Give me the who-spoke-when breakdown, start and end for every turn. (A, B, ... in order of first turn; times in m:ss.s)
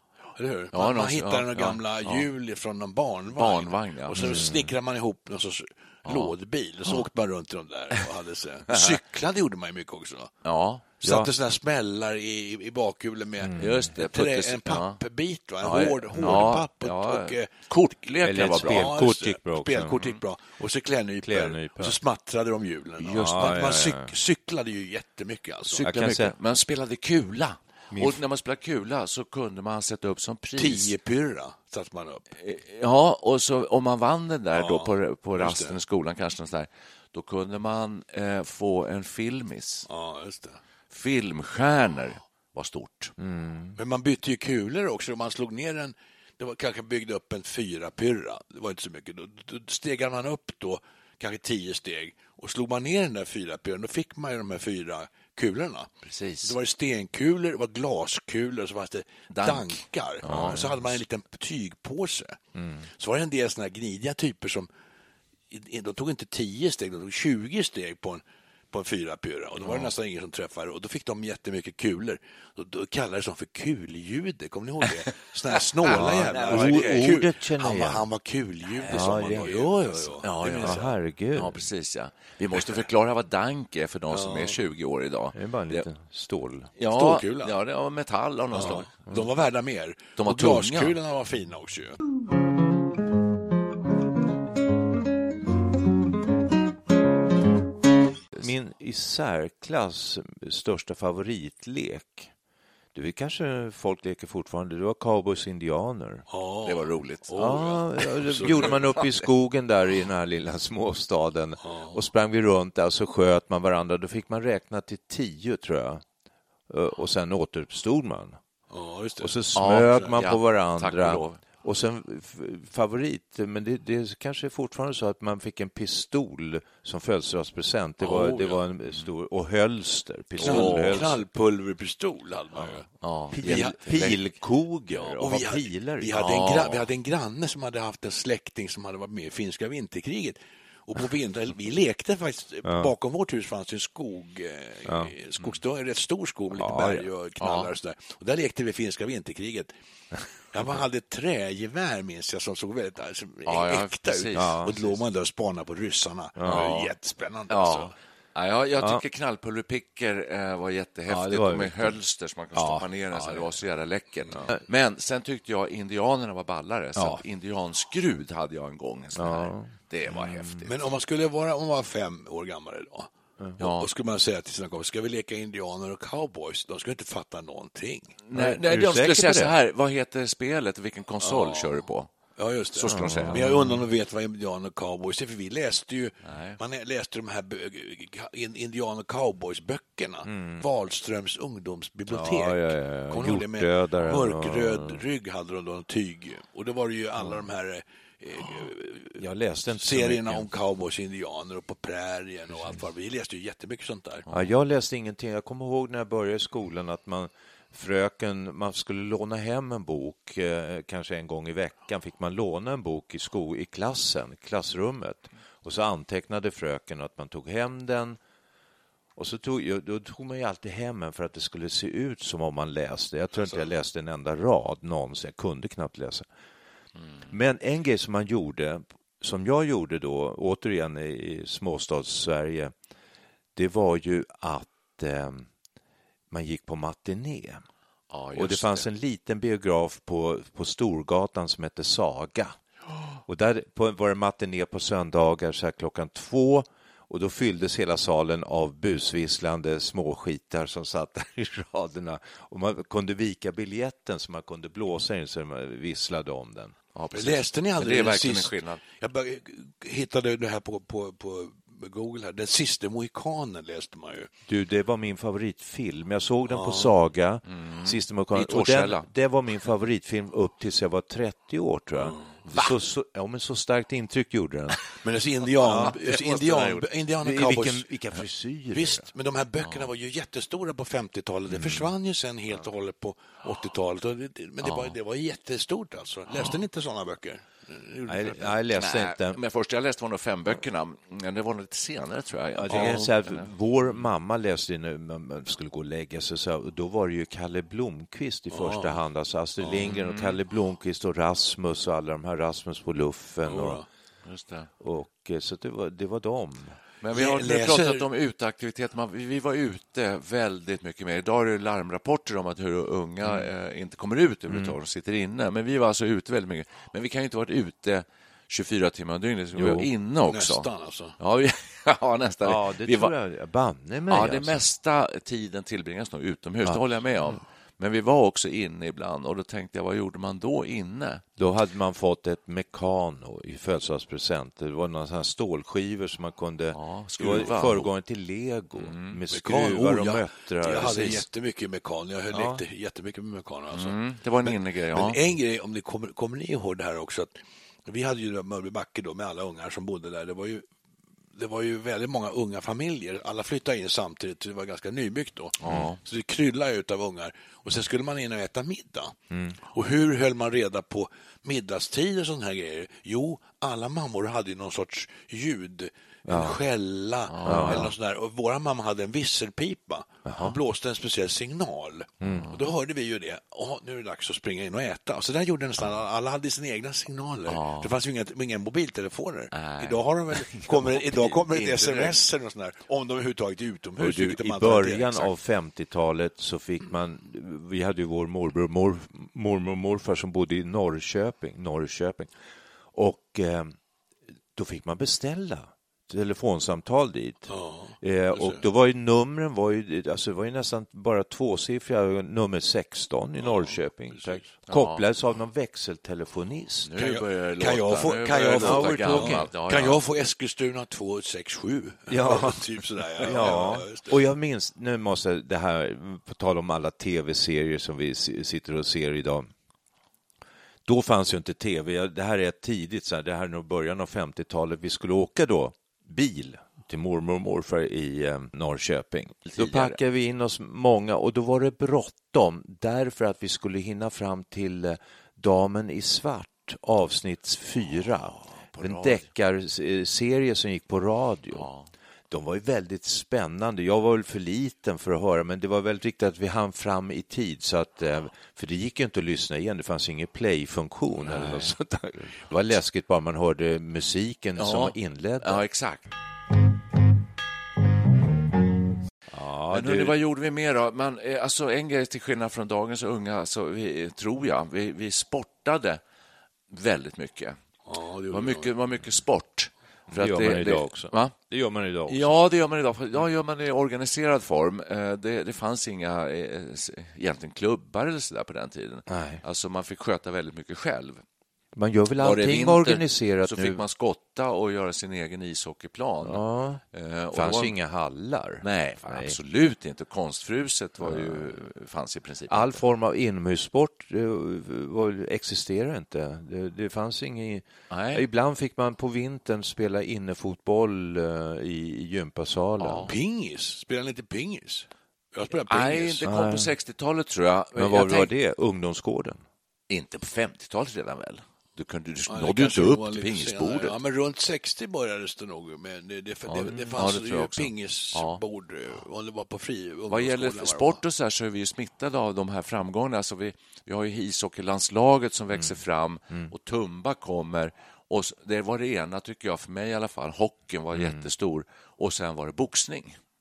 0:00.4-0:10.3 A
0:00.7-0:02.3 B
0:03.3-0:04.5 B
0:04.2-0:04.7 C
0:06.0-0:06.3 B
0:08.7-0:09.0 B
0:10.4-0:10.9 B
0:11.0-0:17.5 A
0:11.0-0:11.3 C
0:13.4-0:13.9 C
0:13.6-0:15.0 B
0:15.6-0:19.0 B
0:18.2-0:20.0 C
0:18.6-0:25.8 A
0:20.0-0:20.2 B
0:21.2-0:22.0 C
0:23.0-0:23.5 B
0:23.1-0:24.1 C
0:25.6-0:30.9 B
0:25.8-0:26.3 C
0:27.9-0:28.2 C
0:30.6-0:32.2 A
0:32.4-0:39.9 B
0:34.5-0:35.8 A
0:39.9-0:40.6 A
0:40.9-0:43.1 B
0:43.2-0:43.8 C
0:43.8-0:55.9 A
0:56.0-0:56.5 B
0:56.4-1:02.4 A
0:59.3-1:01.0 B
1:00.2-1:00.6 C
1:03.0-1:04.7 A
1:05.5-1:21.0 A
1:09.6-1:09.9 B
1:15.8-1:17.2 B
1:15.9-1:18.0 C
1:18.8-1:25.9 B
1:18.9-1:21.6 C
1:24.1-1:24.6 A
1:25.3-1:26.7 C
1:26.8-1:28.9 B
1:26.9-1:27.6 A
1:28.5-1:32.0 A
1:30.2-1:31.0 B
1:38.4-1:42.3 C
1:42.9-1:46.3 C
1:46.3-1:48.9 A
1:46.6-1:47.7 B
1:47.4-1:56.0 C
1:48.3-1:49.0 B
1:51.6-1:52.0 A
1:56.7-1:58.4 C
1:58.7-1:59.4 A
1:59.2-2:11.2 C
1:59.5-2:01.4 B
2:08.0-2:08.6 A
2:10.4-2:12.9 A
2:10.4-2:11.2 B
2:13.0-2:14.2 B
2:13.3-2:16.2 C
2:13.4-2:14.2 A
2:14.9-2:29.7 A
2:16.1-2:16.9 B
2:22.6-2:22.9 C
2:24.8-2:25.1 C
2:26.5-2:27.1 C
2:27.4-2:27.7 B
2:30.5-2:37.9 A
2:33.4-2:35.0 B
2:34.3-2:34.8 C
2:36.4-2:36.7 C
2:36.4-2:36.9 B
2:37.5-2:50.7 B
2:41.1-2:42.0 C
2:42.5-2:43.5 C
2:47.0-2:47.2 C
2:49.2-2:50.6 C
2:50.6-2:58.2 A
2:53.6-2:53.9 B
2:58.2-3:02.1 B
2:58.3-2:59.5 C
3:01.2-3:19.2 A
3:02.7-3:03.4 B
3:02.8-3:03.8 C
3:06.2-3:06.6 B
3:10.2-3:10.6 C
3:12.1-3:15.0 C
3:12.1-3:12.8 B
3:19.2-3:20.5 C
3:19.8-3:24.2 A
3:24.3-3:38.2 C
3:39.2-3:46.3 C
3:43.4-3:43.7 A
3:47.3-3:52.7 C
3:53.6-3:55.5 C
3:56.3-3:57.6 C
3:58.1-3:58.8 B
3:58.3-4:02.6 C
4:03.3-4:16.7 C
4:16.9-4:18.8 B
4:17.1-4:24.3 A
4:24.5-4:34.8 C
4:26.5-4:26.9 A
4:27.5-4:29.1 B
4:32.5-4:32.8 B
4:35.0-4:37.9 A
4:35.6-4:36.0 C
4:35.6-4:36.9 B
4:37.2-4:39.1 C
4:38.7-4:48.6 A
4:39.6-4:39.9 B
4:41.5-4:41.9 C
4:44.6-4:45.0 B
4:48.1-4:49.4 C
4:48.7-4:53.5 B
4:52.6-5:03.8 C
4:52.7-4:53.0 A
4:58.5-4:59.0 A
4:59.6-5:00.4 B
5:03.4-5:03.8 A
5:04.2-5:04.7 B
5:04.8-5:06.8 C
5:07.0-5:23.1 B
5:07.1-5:08.1 A
5:14.5-5:14.8 C
5:19.6-5:19.9 C
5:20.2-5:21.1 A
5:22.4-5:24.6 C
5:24.1-5:31.2 B
5:31.4-5:41.2 C
5:36.7-5:37.9 B
5:37.3-5:37.7 A
5:38.8-5:39.2 B
5:39.3-5:50.6 A
5:40.6-5:41.2 B
5:42.3-5:42.6 C
5:43.7-5:45.2 B
5:51.4-5:59.2 A
5:55.6-5:56.0 B
5:59.3-5:59.6 C
5:59.7-6:25.3 A
6:06.2-6:06.6 C
6:07.3-6:07.9 B
6:07.4-6:07.9 C
6:10.2-6:10.6 C
6:12.2-6:12.5 C
6:12.2-6:12.6 B
6:17.5-6:17.9 B
6:19.5-6:22.2 B
6:24.0-6:32.3 C
6:32.9-6:33.8 C
6:34.5-6:47.0 C
6:37.5-6:38.6 A
6:43.4-6:44.5 A
6:44.7-6:45.1 B
6:46.8-6:50.0 B
6:47.0-6:54.2 A
6:48.4-6:49.5 C
6:52.1-6:52.6 C
6:53.2-6:59.5 C
6:53.2-6:53.7 B
7:00.9-7:21.7 C
7:09.4-7:10.0 B
7:18.3-7:19.3 B
7:21.5-7:21.9 B
7:22.3-7:35.6 C
7:31.1-7:31.7 B
7:34.6-7:36.1 B
7:39.3-7:40.2 C
7:39.7-7:46.0 B
7:46.7-7:47.6 B
7:47.8-7:48.7 A
7:48.3-7:51.3 B
7:50.1-7:52.4 C
7:52.1-8:01.2 B
7:59.1-7:59.4 C
8:01.8-8:03.8 C
8:02.2-8:07.8 B
8:06.2-8:06.8 C
8:07.3-8:09.4 C
8:08.6-8:12.8 B
8:11.0-8:11.6 C
8:12.5-8:23.1 C
8:17.9-8:18.2 B
8:22.8-8:23.1 B
8:23.0-8:26.3 A
8:25.7-8:28.3 B
8:26.2-8:26.7 C
8:27.8-8:29.4 C
8:29.9-8:34.0 B
8:32.3-8:41.0 A
8:36.5-8:38.4 B
8:36.7-8:37.1 C
8:40.1-8:53.2 B
8:50.9-8:51.3 C